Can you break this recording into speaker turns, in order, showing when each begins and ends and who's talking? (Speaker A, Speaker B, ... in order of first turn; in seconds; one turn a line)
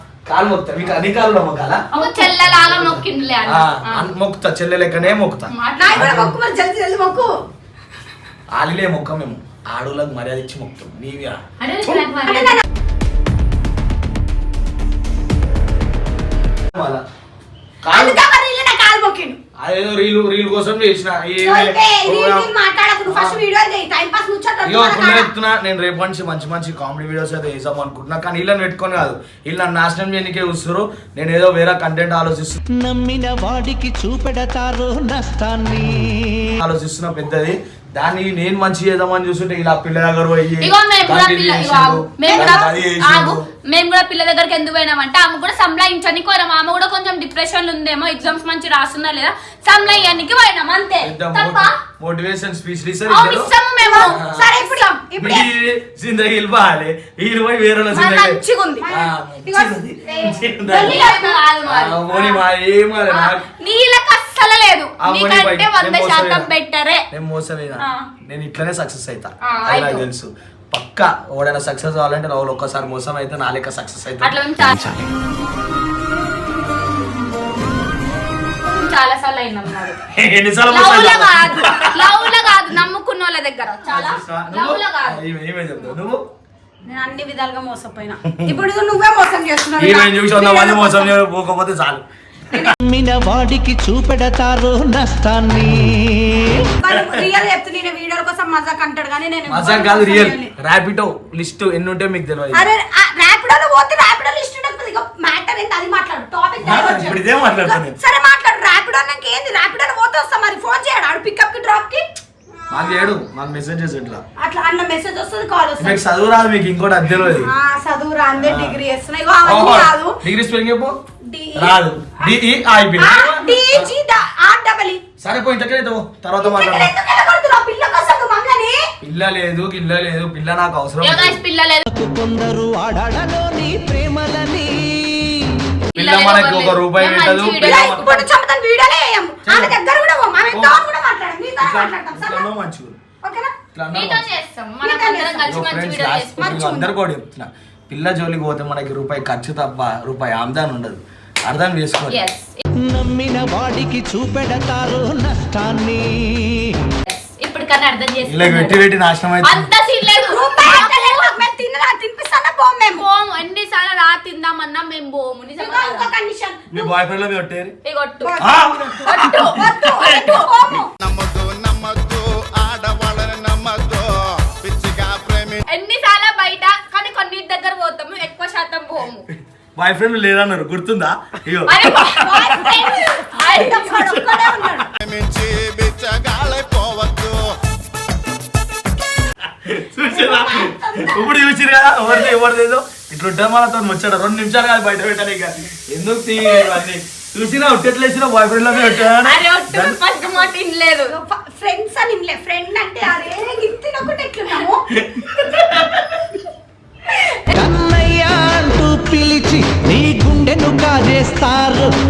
Speaker A: 0.3-6.3
Speaker B: 1.9-4.1
Speaker B: 5.5-6.0
Speaker C: 5.8-7.3
Speaker A: 8.5-11.4
Speaker B: 11.6-12.6
Speaker C: 12.3-12.6
Speaker A: 16.7-17.0
Speaker A: 17.8-18.2
Speaker C: 17.9-19.4
Speaker A: 19.6-22.5
Speaker C: 21.4-25.3
Speaker A: 23.1-23.4
Speaker A: 24.6-32.6
Speaker D: 32.7-36.5
Speaker A: 36.6-43.4
Speaker B: 40.6-51.8
Speaker C: 42.2-42.7
Speaker A: 49.8-50.1
Speaker A: 51.0-53.5
Speaker B: 53.1-54.2
Speaker C: 53.8-55.5
Speaker A: 54.1-54.6
Speaker A: 55.2-61.1
Speaker B: 57.9-58.9
Speaker C: 58.8-61.4
Speaker B: 60.2-62.4
Speaker A: 61.6-63.4
Speaker B: 63.1-67.0
Speaker A: 65.0-66.5
Speaker A: 67.1-74.9
Speaker B: 67.8-68.1
Speaker B: 69.5-70.0
Speaker B: 74.2-75.0
Speaker B: 78.7-80.0
Speaker A: 80.1-82.3
Speaker B: 80.7-85.2
Speaker A: 83.9-86.2
Speaker C: 86.8-91.1
Speaker A: 88.3-88.5
Speaker A: 89.8-92.7
Speaker D: 92.8-96.6
Speaker C: 96.6-100.5
Speaker A: 99.5-102.7
Speaker C: 102.5-112.0
Speaker A: 106.6-108.0
Speaker A: 112.7-114.2
Speaker C: 114.4-116.0
Speaker A: 115.8-117.5
Speaker C: 117.2-120.1
Speaker A: 118.4-118.8
Speaker A: 119.4-121.0
Speaker C: 121.2-121.7
Speaker A: 121.6-123.9
Speaker C: 123.0-125.0
Speaker A: 125.2-126.9
Speaker C: 126.4-128.8
Speaker A: 129.0-131.4
Speaker B: 131.0-131.8
Speaker D: 131.9-135.6
Speaker B: 135.9-138.2
Speaker A: 135.9-138.1
Speaker C: 137.5-142.5
Speaker A: 139.4-139.8
Speaker A: 140.5-140.8
Speaker A: 141.6-143.0
Speaker C: 143.2-143.5
Speaker A: 143.7-144.3
Speaker B: 143.9-146.6
Speaker C: 144.8-145.5
Speaker A: 145.5-152.2
Speaker C: 146.4-146.9
Speaker B: 152.1-152.6
Speaker D: 152.8-156.8
Speaker B: 157.1-158.9
Speaker A: 158.2-159.7
Speaker B: 159.4-161.4
Speaker C: 160.2-163.0
Speaker B: 162.9-166.1
Speaker C: 165.6-166.9
Speaker A: 166.7-167.8
Speaker B: 167.8-168.3
Speaker C: 168.2-170.9
Speaker A: 168.4-170.4
Speaker B: 169.0-170.3
Speaker E: 171.0-175.6
Speaker B: 175.7-179.2
Speaker A: 179.8-182.7
Speaker B: 181.7-184.3
Speaker C: 181.9-184.9
Speaker E: 185.0-187.5
Speaker A: 189.5-200.0
Speaker C: 190.0-191.3
Speaker B: 198.8-201.1
Speaker C: 201.1-204.8
Speaker A: 204.9-206.2
Speaker D: 207.5-211.9